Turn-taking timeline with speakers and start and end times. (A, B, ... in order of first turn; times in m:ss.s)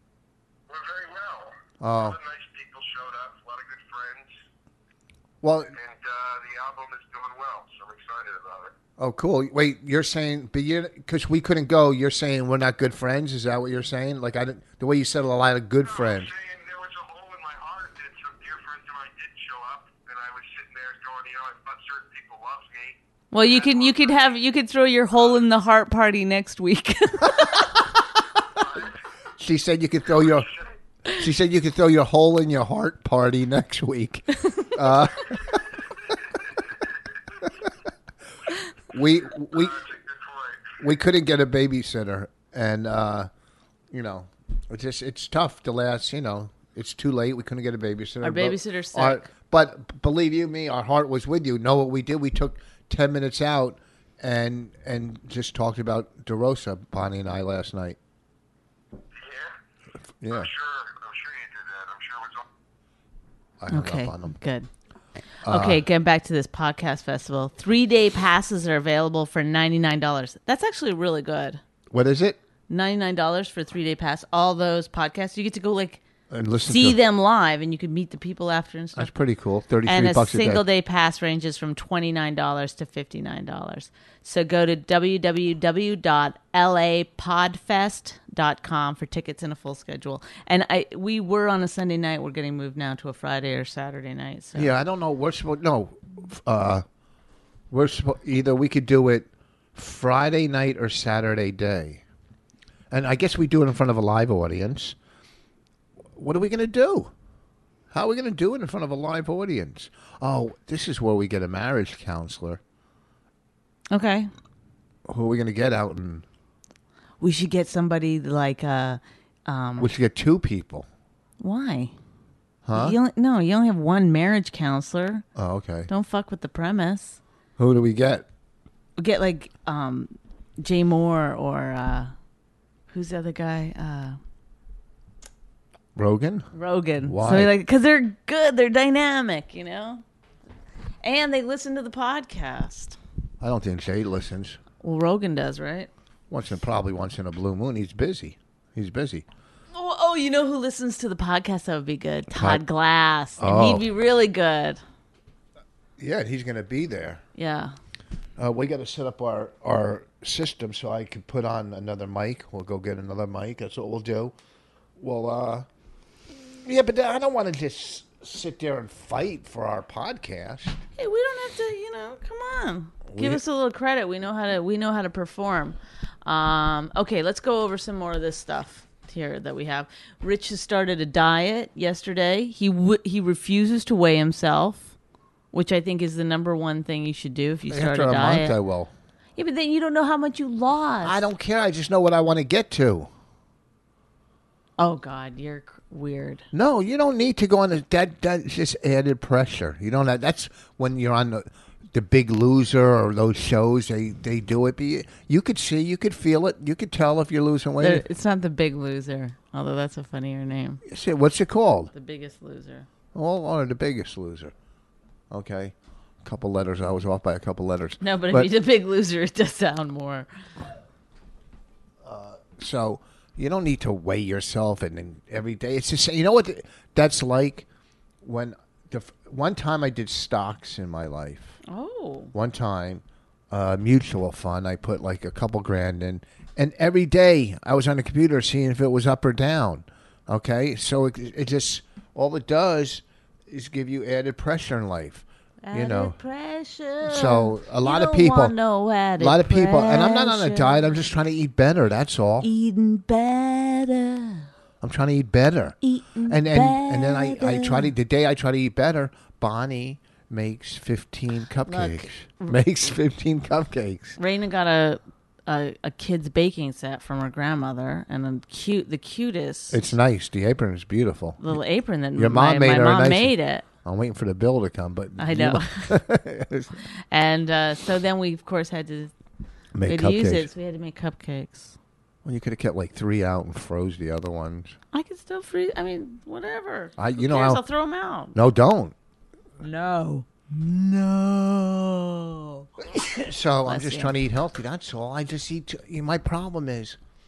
0:00.7-0:04.3 A
0:01.8-0:02.2 B
0:05.4-0:05.7 B
0:05.7-0:08.7 A
0:09.0-0:16.3 B
0:15.8-0:24.4 A
0:23.3-0:27.7 C
0:28.6-0:28.9 A
0:29.4-0:30.5 B
0:30.3-0:30.6 A
0:31.1-0:35.8 B
0:38.9-0:39.8 B
0:39.5-0:40.8 A
0:40.8-0:43.3 B
0:43.9-0:58.0 B
0:48.2-0:49.3 C
0:59.1-0:59.5 A
1:00.2-1:00.5 B
1:00.3-1:02.4 A
1:03.6-1:04.3 B
1:03.7-1:04.7 C
1:05.4-1:05.8 B
1:05.5-1:11.6 C
1:11.9-1:12.4 B
1:12.7-1:16.0 C
1:16.3-1:17.0 B
1:16.6-1:19.1 C
1:18.9-1:20.6 B
1:19.8-1:34.7 C
1:34.5-1:36.8 B
1:37.7-1:42.0 B
1:42.9-1:45.0 B
1:46.2-1:47.1 B
1:47.9-1:52.6 B
1:53.9-1:54.3 C
1:55.1-1:56.2 B
1:57.2-1:59.9 C
1:59.8-2:00.9 B
2:01.4-2:01.9 C
2:02.6-2:03.0 B
2:02.7-2:05.2 C
2:05.4-2:05.9 B
2:05.9-2:07.2 C
2:07.6-2:08.2 B
2:09.0-2:12.1 C
2:12.9-2:14.2 C
2:15.9-2:16.5 B
2:16.5-2:20.0 C
2:17.0-2:17.5 B
2:21.0-2:23.0 C
2:23.4-2:24.6 B
2:24.8-2:25.9 C
2:26.3-2:29.2 B
2:29.7-2:34.8 C
2:32.3-2:32.6 B
2:33.4-2:33.9 B
2:36.0-2:37.2 B
2:37.4-2:37.7 C
2:38.4-2:44.3 B
2:45.0-2:45.7 B
2:46.3-2:50.8 B
2:51.0-3:04.9 C
2:53.1-2:53.4 B
3:05.5-3:08.6 C
3:07.7-3:08.9 B
3:09.4-3:11.2 C
3:11.0-3:13.1 B
3:14.8-3:16.4 C
3:16.5-3:28.0 B
3:27.8-3:30.8 C
3:30.8-3:31.9 B
3:31.9-3:32.9 C
3:33.1-3:34.5 B
3:35.3-3:38.5 B
3:38.0-3:40.3 C
3:42.0-3:47.6 B
3:48.2-3:51.6 B
3:51.7-3:52.3 C
3:52.3-4:06.2 B
4:05.6-4:10.9 C
4:07.0-4:08.5 B
4:09.2-4:12.5 B
4:12.4-4:14.4 C
4:14.8-4:24.2 B
4:15.8-4:17.9 C
4:21.7-4:22.6 C
4:24.2-4:29.8 C
4:29.7-4:31.5 B
4:31.4-4:33.6 C
4:32.2-4:36.8 B
4:35.2-4:35.9 C
4:37.1-4:39.1 C
4:39.7-4:40.5 B
4:39.8-4:41.8 C
4:42.2-4:44.8 B
4:44.9-4:48.3 C
4:47.0-4:47.6 B
4:48.3-4:48.9 B
4:49.6-4:50.5 C
4:50.5-4:52.0 B
4:52.2-4:52.6 C
4:52.8-4:57.0 B
4:53.6-4:54.1 C